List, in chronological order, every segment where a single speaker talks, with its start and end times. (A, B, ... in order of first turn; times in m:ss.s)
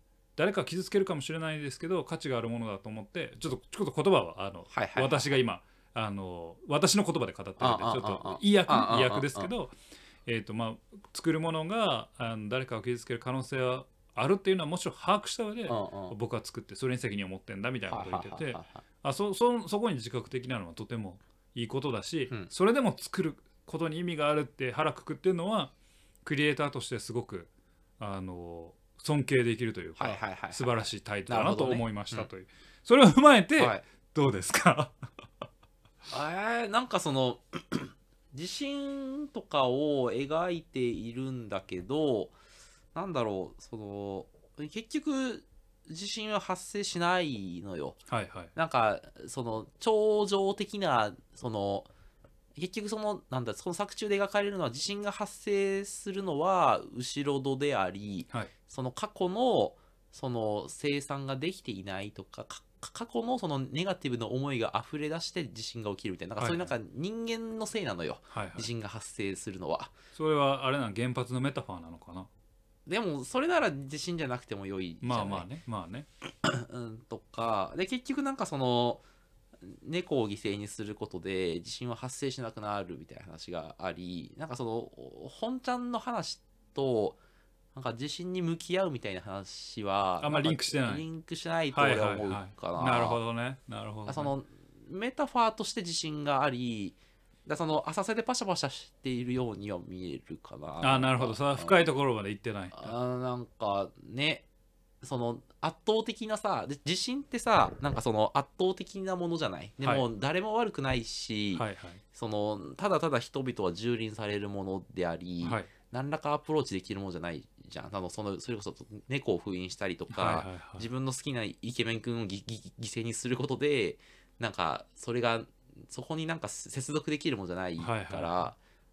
0:00.4-0:09.7 A
0:04.7-0:05.2 B
0:07.6-0:09.5 B
0:10.2-0:25.7 A
0:15.7-0:16.2 B
0:17.9-0:18.8 B
0:26.2-0:35.1 A
0:30.0-0:32.3 B
0:33.6-0:33.8 B
0:36.1-0:42.4 B
0:42.9-0:48.0 B
0:48.1-0:48.5 A
0:48.5-0:51.9 B
0:52.5-1:09.9 B
1:06.4-1:06.7 A
1:08.3-1:08.7 A
1:10.1-1:12.3 A
1:12.8-1:15.5 B
1:15.0-1:16.1 A
1:16.4-1:19.0 B
1:19.6-1:27.2 B
1:27.7-1:33.2 B
1:30.2-1:31.0 A
1:31.7-1:34.3 A
1:34.1-1:41.8 B
1:40.8-1:42.9 A
1:42.7-1:44.4 B
1:45.0-2:08.6 B
1:51.5-1:52.0 A
1:55.4-1:55.7 A
2:00.1-2:00.9 A
2:07.8-2:08.5 A